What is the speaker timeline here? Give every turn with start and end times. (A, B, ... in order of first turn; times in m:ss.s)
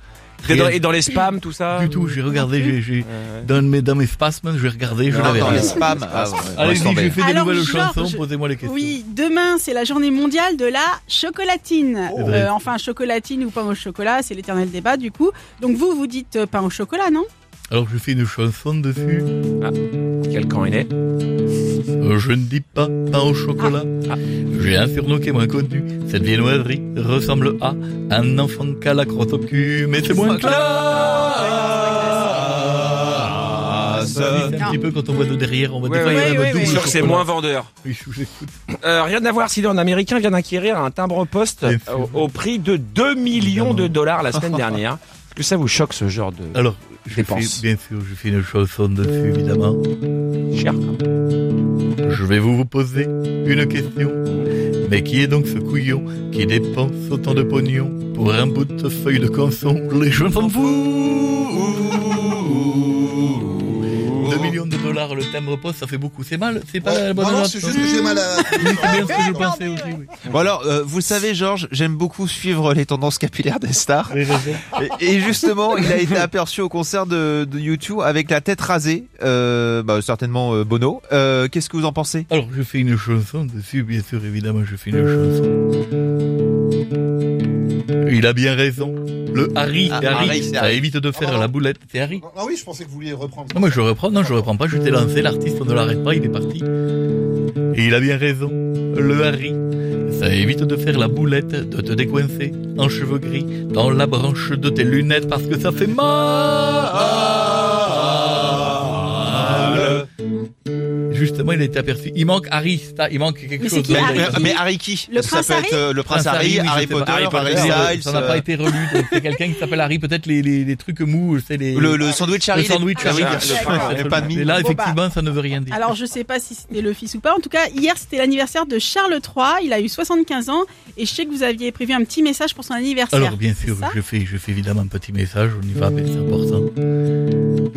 0:00.4-0:00.8 A
0:00.4-0:01.9 B
0:01.7-0:09.0 A
0:02.0-0:02.7 C
0:03.0-0:03.5 B
0:05.1-0:07.2 D
0:05.1-0:06.3 B
0:05.5-0:05.8 E
0:07.2-0:17.3 C
0:12.1-0:12.5 A
0:17.7-0:19.3 A
0:19.6-0:20.9 B
0:22.0-0:23.9 A
0:24.5-0:31.1 A
0:30.5-0:34.6 D
0:30.9-0:32.3 B
0:33.5-0:37.3 A
0:35.8-0:37.7 B
0:36.0-0:36.9 C
0:37.8-0:38.6 A
0:38.8-0:47.6 B
0:41.6-0:42.3 A
0:43.3-0:43.9 A
0:46.5-0:49.8 A
0:50.5-0:50.8 B
0:52.0-0:54.2 A
0:54.8-1:01.9 A
1:01.9-1:03.5 D
1:04.0-1:10.4 A
1:06.8-1:09.5 E
1:07.7-1:10.0 C
1:10.3-1:14.2 D
1:14.1-1:14.7 A
1:14.7-1:22.3 D
1:22.3-1:25.5 A
1:28.0-1:32.2 A
1:29.9-1:30.9 D
1:31.1-1:31.5 E
1:32.2-1:34.4 E
1:33.5-1:36.6 A
1:37.7-1:50.0 A
1:49.4-1:50.0 D
1:51.1-1:54.5 A
1:53.6-1:55.8 C
1:53.9-1:58.4 D
1:56.0-2:05.9 A
1:57.4-1:58.0 B
2:01.7-2:04.6 D
2:03.0-2:04.3 B
2:03.0-2:03.9 C
2:04.5-2:05.0 C
2:05.7-2:14.0 C
2:13.1-2:16.7 A